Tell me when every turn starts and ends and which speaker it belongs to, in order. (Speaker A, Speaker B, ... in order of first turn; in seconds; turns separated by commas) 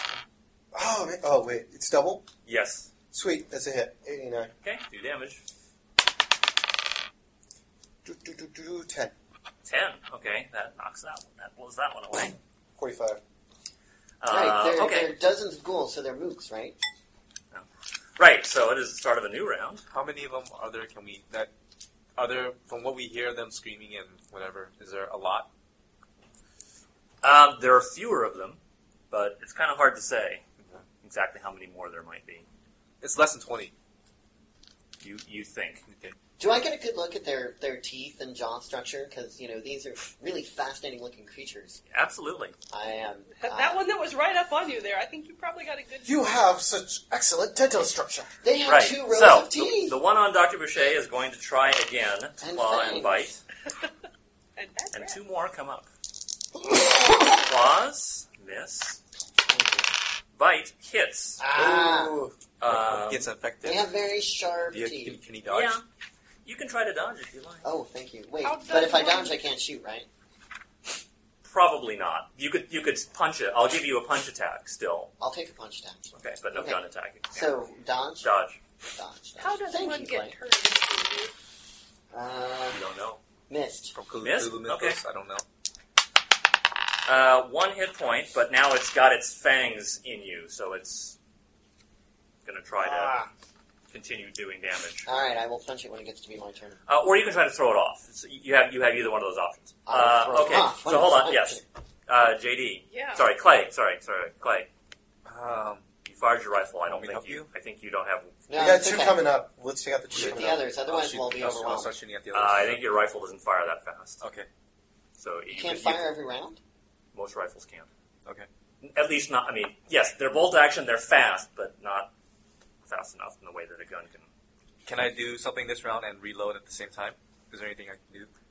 Speaker A: 0.7-2.3, Speaker B: 2.5-2.9, Speaker A: 3.1-4.5, Speaker B: 4.6-5.4, Speaker A: 8.0-9.1, Speaker B: 9.6-12.4, Speaker A: 12.8-13.2, Speaker B: 14.2-15.1, Speaker C: 14.3-16.8, Speaker B: 18.2-19.8, Speaker D: 19.9-21.5, Speaker D: 22.1-25.5, Speaker B: 27.2-28.6, Speaker B: 29.1-30.4, Speaker B: 31.0-32.5, Speaker D: 33.0-33.7, Speaker B: 35.0-35.9, Speaker D: 35.9-36.1, Speaker C: 36.4-41.8, Speaker B: 41.9-42.5, Speaker C: 42.7-43.8, Speaker E: 43.4-46.2, Speaker A: 46.0-48.3, Speaker C: 48.4-50.0, Speaker B: 48.6-53.4, Speaker C: 52.4-53.2, Speaker E: 54.6-55.2, Speaker B: 54.9-55.9, Speaker B: 57.4-59.0, Speaker C: 59.5-59.9, Speaker B: 60.4-61.4, Speaker C: 61.4-62.2, Speaker A: 61.5-62.3, Speaker B: 62.6-63.3, Speaker D: 62.7-63.9, Speaker C: 63.6-65.2, Speaker D: 64.7-65.8, Speaker B: 65.5-65.8, Speaker B: 66.4-67.6, Speaker C: 67.6-70.1, Speaker E: 68.4-69.4, Speaker B: 71.4-75.1, Speaker C: 75.2-76.8, Speaker B: 76.2-77.5, Speaker C: 77.3-78.3, Speaker B: 78.2-78.6, Speaker C: 78.9-80.4, Speaker E: 79.4-81.3, Speaker C: 82.1-82.8, Speaker B: 82.7-83.2, Speaker C: 83.5-83.9, Speaker D: 83.9-85.4, Speaker B: 84.2-85.0, Speaker B: 87.0-91.2, Speaker B: 92.4-93.2, Speaker C: 92.8-93.3, Speaker B: 93.9-95.1, Speaker C: 95.0-96.8, Speaker B: 96.9-104.7, Speaker C: 99.8-101.6, Speaker E: 102.9-103.3, Speaker D: 105.2-105.9, Speaker B: 106.0-108.3, Speaker D: 106.8-107.5, Speaker C: 108.5-109.3, Speaker A: 108.5-110.6, Speaker D: 110.1-112.8, Speaker C: 110.2-111.9, Speaker B: 112.3-114.2, Speaker D: 114.2-114.5, Speaker B: 115.2-116.1, Speaker C: 115.5-116.6, Speaker B: 117.1-117.9, Speaker B: 118.8-122.1, Speaker B: 122.8-124.3, Speaker D: 124.8-128.3